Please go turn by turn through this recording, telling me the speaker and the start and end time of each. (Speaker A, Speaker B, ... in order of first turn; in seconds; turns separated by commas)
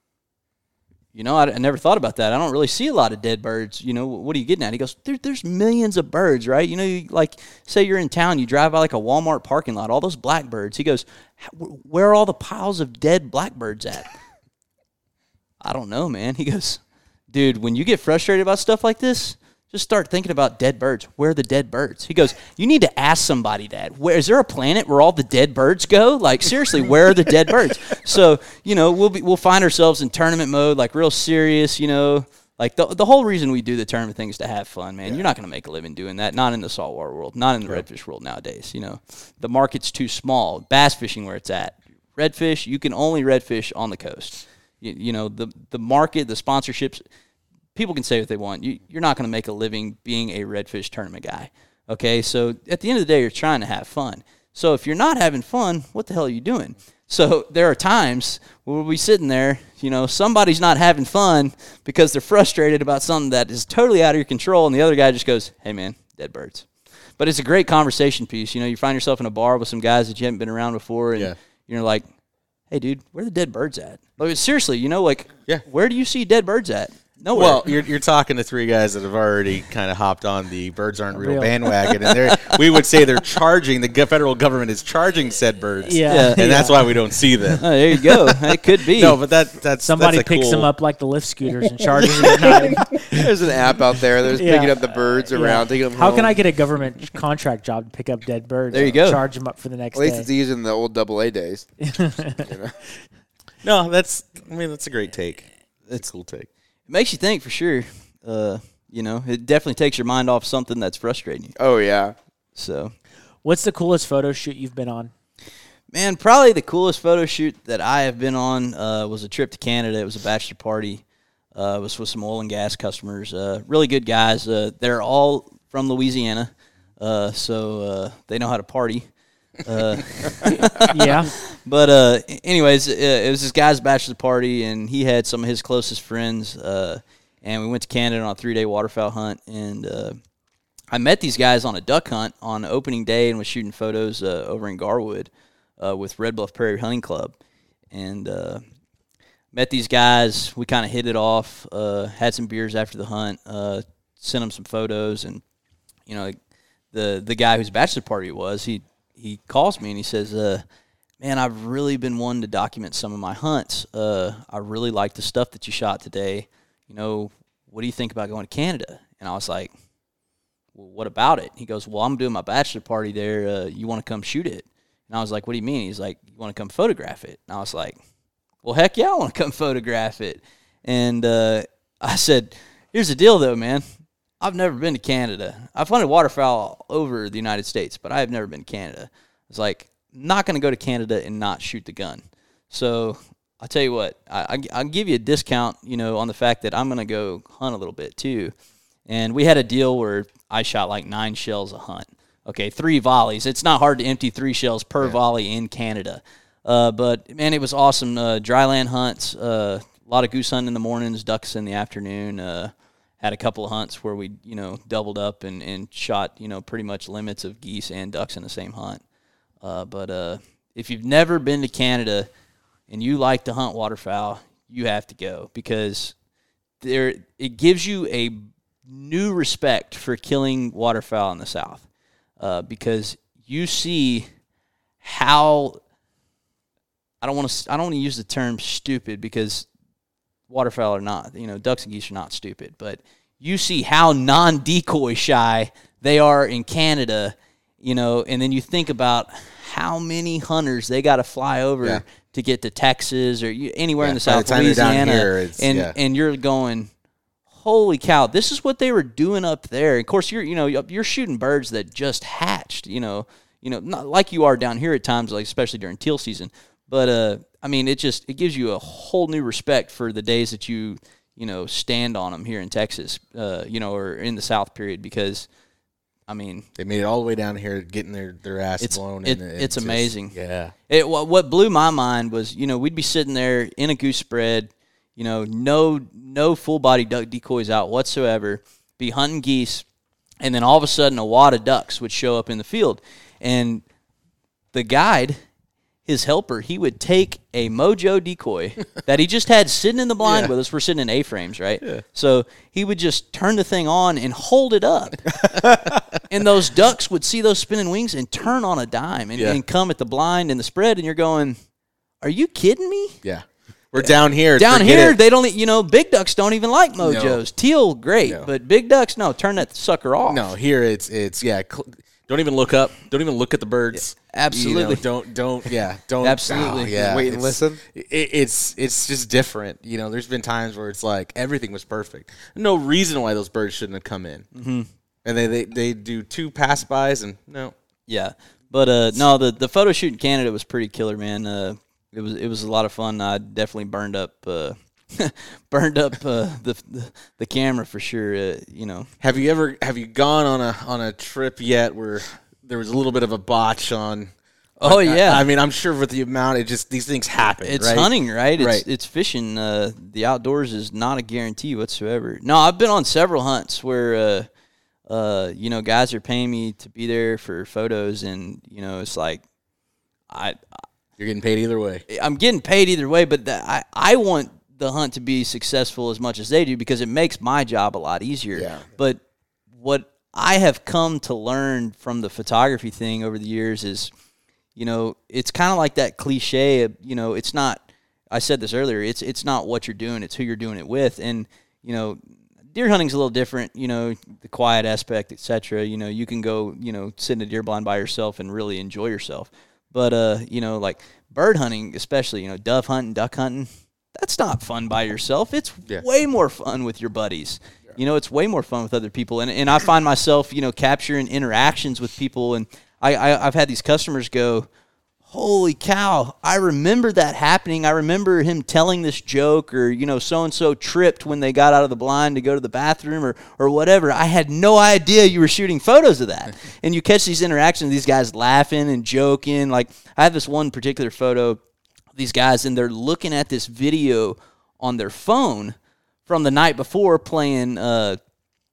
Speaker A: 1.1-14.1, Speaker A: 15.6-16.8, Speaker A: 17.3-47.0, Speaker A: 47.8-66.7, Speaker A: 67.2-72.0, Speaker A: 72.7-77.7, Speaker B: 77.3-87.7, Speaker C: 81.2-81.5, Speaker C: 85.8-86.9, Speaker A: 86.1-86.6, Speaker A: 87.6-89.2, Speaker B: 88.3-90.7, Speaker C: 89.8-93.2, Speaker D: 92.3-96.3, Speaker C: 94.3-94.8, Speaker C: 95.3-100.3, Speaker A: 98.7-99.2, Speaker D: 100.0-102.8, Speaker C: 101.8-102.5, Speaker B: 103.6-106.5, Speaker A: 106.9-111.5, Speaker D: 111.6-112.2, Speaker A: 112.6-112.9, Speaker C: 113.4-115.1, Speaker A: 115.9-121.0, Speaker A: 121.5-129.1, Speaker A: 129.7-140.2, Speaker C: 130.9-131.3, Speaker A: 140.9-147.4, Speaker A: 147.9-148.6, Speaker A: 149.5-155.4, Speaker A: 156.1-156.4, Speaker A: 156.9-160.6, Speaker A: 161.2-169.7, Speaker A: 170.8-178.0, Speaker A: 178.6-183.8, Speaker A: 184.4-198.5, Speaker A: 199.1-219.0, Speaker A: 219.6-222.3, Speaker A: 222.9-226.1, Speaker A: 226.8-231.8, Speaker A: 232.4-234.3, Speaker A: 235.0-235.8, Speaker A: 237.2-239.7, Speaker A: 240.5-256.9, Speaker B: 254.0-255.9, Speaker A: 257.5-275.5, Speaker A: 276.3-276.7, Speaker B: 276.8-280.7, Speaker A: 278.8-280.4, Speaker A: 280.9-289.8, Speaker A: 290.4-293.8, Speaker A: 294.7-295.4, Speaker A: 296.1-305.3, Speaker B: 300.2-300.5, Speaker B: 305.6-306.0, Speaker A: 306.3-311.6, Speaker A: 312.2-313.2, Speaker B: 313.2-315.2, Speaker A: 314.0-320.5, Speaker B: 317.0-317.4, Speaker B: 320.3-334.5, Speaker A: 323.9-325.1, Speaker A: 326.2-326.9, Speaker D: 326.5-327.8, Speaker A: 334.5-334.9, Speaker B: 335.2-337.7, Speaker A: 338.1-349.1, Speaker B: 349.2-354.3, Speaker A: 354.8-355.5, Speaker B: 354.8-358.9, Speaker A: 357.6-364.5, Speaker A: 365.1-369.4, Speaker A: 370.3-370.6, Speaker B: 371.2-372.0, Speaker A: 372.1-379.2, Speaker D: 378.5-378.9, Speaker A: 379.8-384.1, Speaker A: 384.8-387.8, Speaker A: 388.3-392.2, Speaker A: 392.7-414.7, Speaker A: 415.3-431.6, Speaker A: 432.1-435.8, Speaker A: 436.3-438.2